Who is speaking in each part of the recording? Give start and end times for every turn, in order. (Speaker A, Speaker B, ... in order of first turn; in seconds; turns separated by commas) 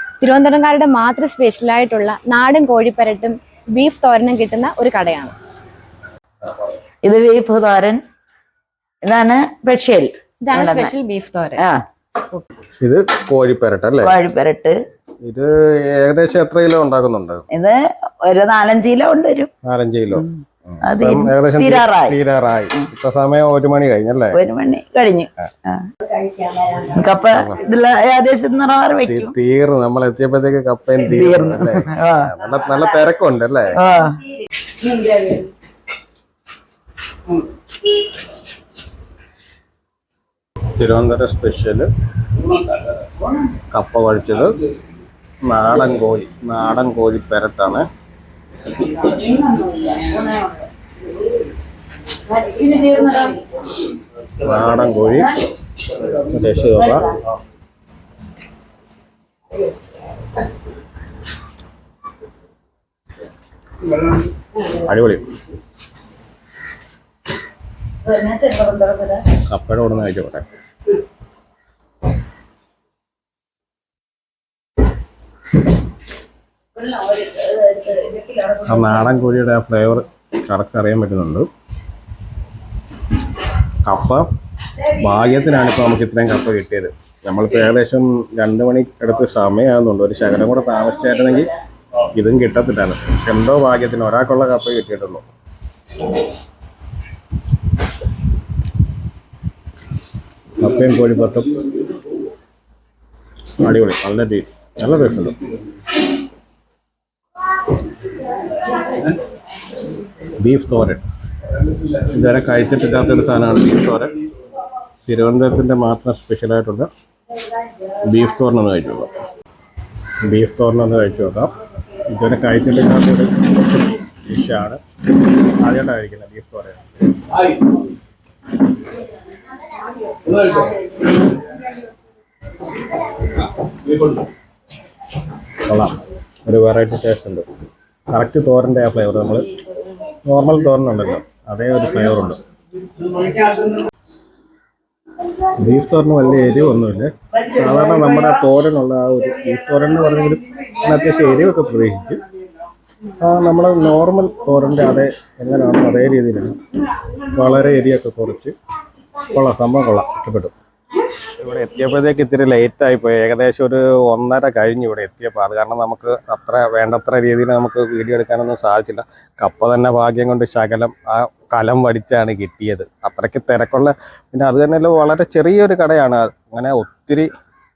Speaker A: 0.2-5.3, Speaker B: 7.0-8.0, Speaker B: 9.0-10.9, Speaker A: 10.4-11.7, Speaker B: 11.6-12.4, Speaker C: 12.8-14.2, Speaker B: 14.0-14.8, Speaker C: 15.2-17.4, Speaker B: 17.5-19.5, Speaker C: 19.6-24.4, Speaker B: 20.1-22.2, Speaker B: 24.3-29.4, Speaker C: 27.3-27.6, Speaker C: 29.0-33.8, Speaker B: 31.0-32.3, Speaker B: 33.8-34.3, Speaker B: 34.9-35.5, Speaker C: 40.8-42.4, Speaker C: 43.7-44.5, Speaker C: 45.4-47.9, Speaker B: 49.9-50.2, Speaker B: 52.3-53.4, Speaker C: 54.4-55.4, Speaker C: 56.1-57.1, Speaker C: 64.7-65.3, Speaker B: 68.1-69.2, Speaker C: 69.3-70.5, Speaker B: 76.8-78.8, Speaker C: 78.7-81.5, Speaker C: 83.8-91.5, Speaker C: 92.2-95.2, Speaker C: 100.6-101.9, Speaker C: 103.6-105.5, Speaker C: 110.3-111.0, Speaker C: 111.8-114.2, Speaker C: 115.1-116.9, Speaker C: 117.8-119.1, Speaker C: 120.3-124.8, Speaker C: 125.6-126.8, Speaker C: 135.6-135.9, Speaker C: 136.5-137.5, Speaker C: 138.1-139.5, Speaker C: 140.3-142.4, Speaker C: 145.5-152.2, Speaker C: 153.2-158.6, Speaker C: 159.2-160.5, Speaker C: 161.2-177.3